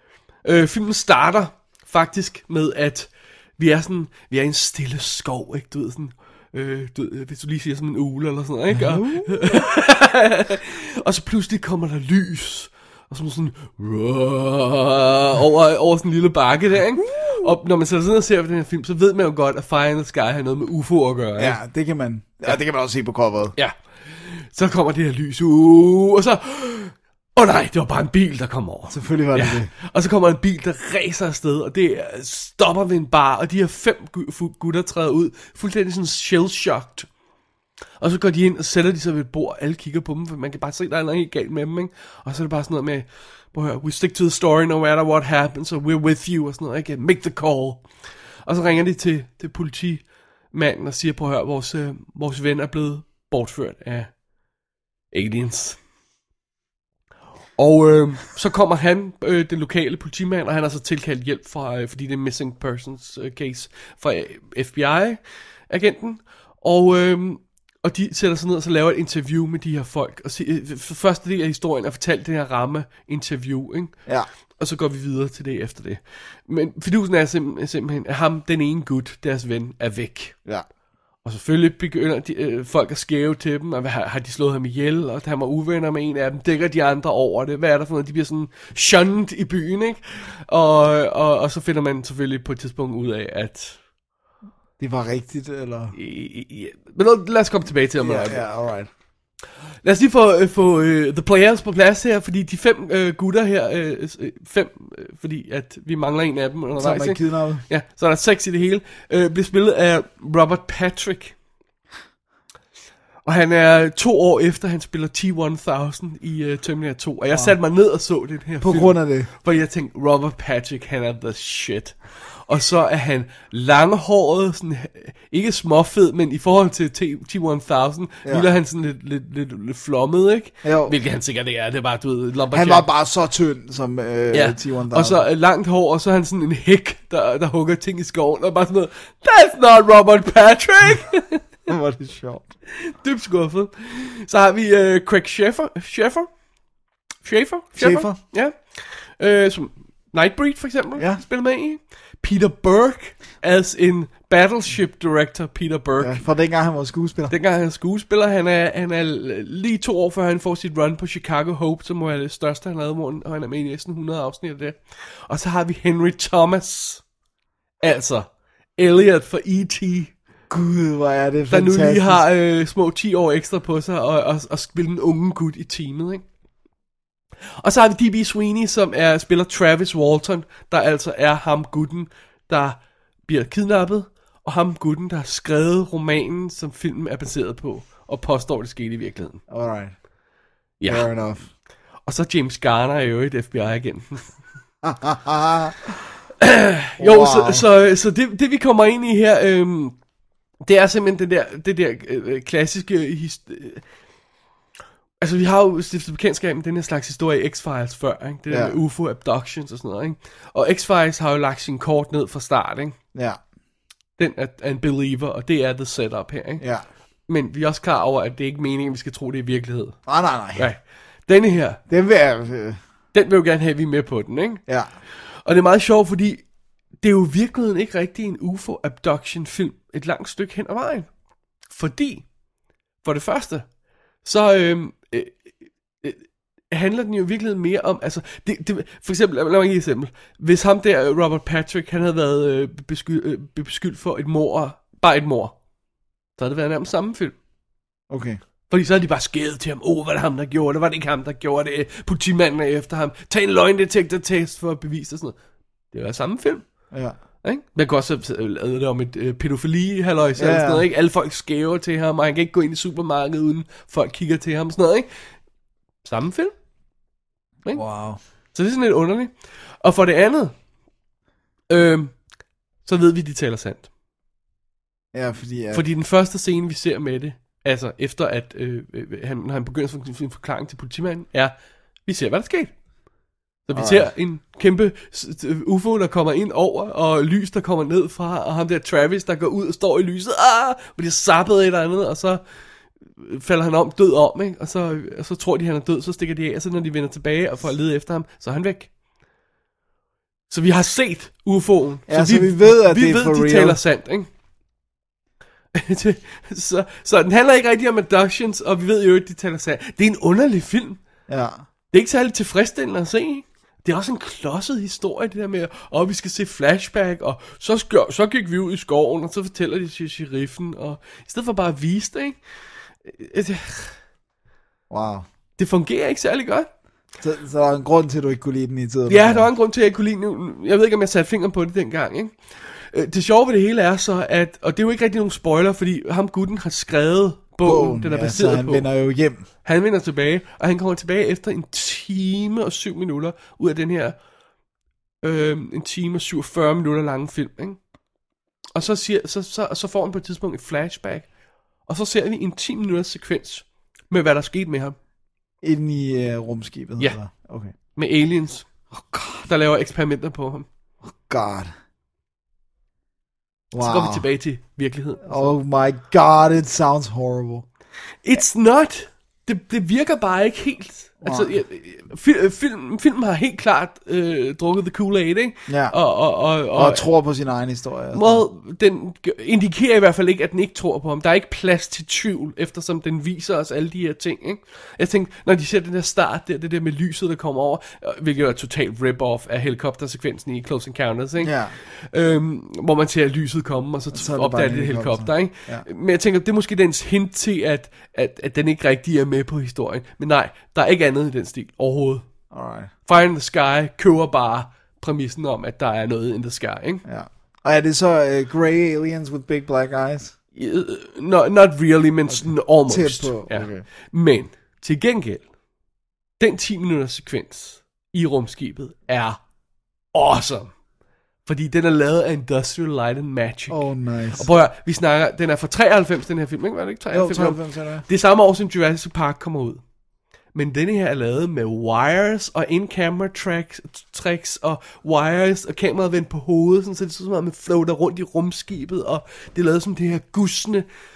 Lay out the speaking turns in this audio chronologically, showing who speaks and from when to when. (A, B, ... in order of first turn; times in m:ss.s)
0:00.4-0:21.6 A
0:08.7-0:09.6 B
0:17.0-0:17.5 B
0:21.4-0:23.5 B
0:23.6-0:37.1 A
0:28.9-0:29.7 B
0:38.0-0:47.8 A
0:48.4-0:54.1 A
0:55.1-0:55.8 A
0:57.6-1:13.9 A
1:14.6-1:20.3 A
1:21.2-1:33.8 A
1:34.8-1:35.9 B
1:35.9-1:38.4 A
1:38.0-1:38.9 B
1:39.8-1:51.3 A
1:46.8-1:47.6 B
1:53.2-2:12.8 A
1:58.6-1:59.3 B
2:10.6-2:11.0 B
2:12.5-2:15.2 B
2:14.3-2:21.4 A
2:21.7-2:22.5 B
2:22.7-2:26.3 A
2:27.2-2:36.2 A
2:27.8-2:28.2 B
2:31.0-2:31.2 B
2:36.0-2:37.3 B
2:37.3-2:47.0 A
2:47.8-2:50.1 A
2:50.5-2:52.2 B
2:51.5-2:56.2 A
2:57.6-3:09.4 A
3:09.5-3:09.9 B
3:10.8-3:11.1 A
3:10.8-3:11.5 B
3:12.0-3:14.3 A
3:14.8-3:16.0 B
3:16.4-3:20.0 A
3:17.0-3:17.6 B
3:20.6-3:23.8 A
3:25.2-3:33.0 A
3:28.5-3:28.8 B
3:34.2-3:36.6 A
3:36.6-3:36.8 B
3:37.3-3:40.0 A
3:40.1-3:40.7 B
3:40.6-3:41.8 A
3:41.9-3:42.8 B
3:43.1-3:44.6 A
3:45.4-3:46.4 A
3:47.0-3:51.1 A
3:51.7-3:52.2 A
3:53.0-3:53.7 A
3:54.2-3:55.5 A
3:56.0-4:05.5 A
4:06.4-4:07.3 A
4:08.1-4:08.4 B
4:08.7-4:15.3 A
4:15.9-4:16.6 A
4:17.4-4:25.1 A
4:20.4-4:20.8 B
4:26.0-4:26.5 A
4:27.7-4:28.2 B
4:28.5-4:30.5 A
4:31.7-4:32.2 A
4:32.8-4:33.9 A
4:35.1-4:35.8 B
4:35.7-4:41.5 A
4:42.0-4:42.7 A
4:43.7-4:52.4 A
4:43.7-4:44.1 B
4:53.2-4:58.9 A
5:00.5-5:04.3 A
5:02.1-5:03.8 B
5:05.7-5:11.0 A
5:11.3-5:11.6 B
5:11.9-5:22.4 A
5:23.0-5:24.0 A
5:24.9-5:25.3 B
5:25.6-5:26.7 A
5:27.2-5:29.5 B
5:29.1-5:38.9 A
5:37.6-5:39.4 B
5:39.6-5:44.2 A
5:45.2-5:47.8 A
5:48.7-5:51.3 A
5:51.9-5:55.0 A
5:55.6-5:57.7 B
5:57.9-5:58.6 A
5:58.9-5:59.5 B
5:59.5-6:00.7 A
6:01.1-6:01.7 B
6:03.7-6:04.3 B
6:03.8-6:05.5 A
6:05.2-6:07.6 B
6:08.2-6:17.0 A
6:11.2-6:11.6 B
6:15.7-6:15.9 B
6:16.7-6:18.4 B
6:18.1-6:42.3 A
6:31.4-6:31.8 B
6:34.1-6:35.8 B
6:42.5-6:42.9 B
6:43.0-6:47.0 A
6:47.0-6:50.3 B
6:50.6-6:55.4 A
6:52.3-6:53.8 B
6:56.4-6:59.4 A
7:00.1-7:00.7 A
7:01.4-7:03.8 A
7:03.7-7:04.5 B
7:04.4-7:09.8 A
7:07.1-7:08.0 B
7:10.5-7:20.8 A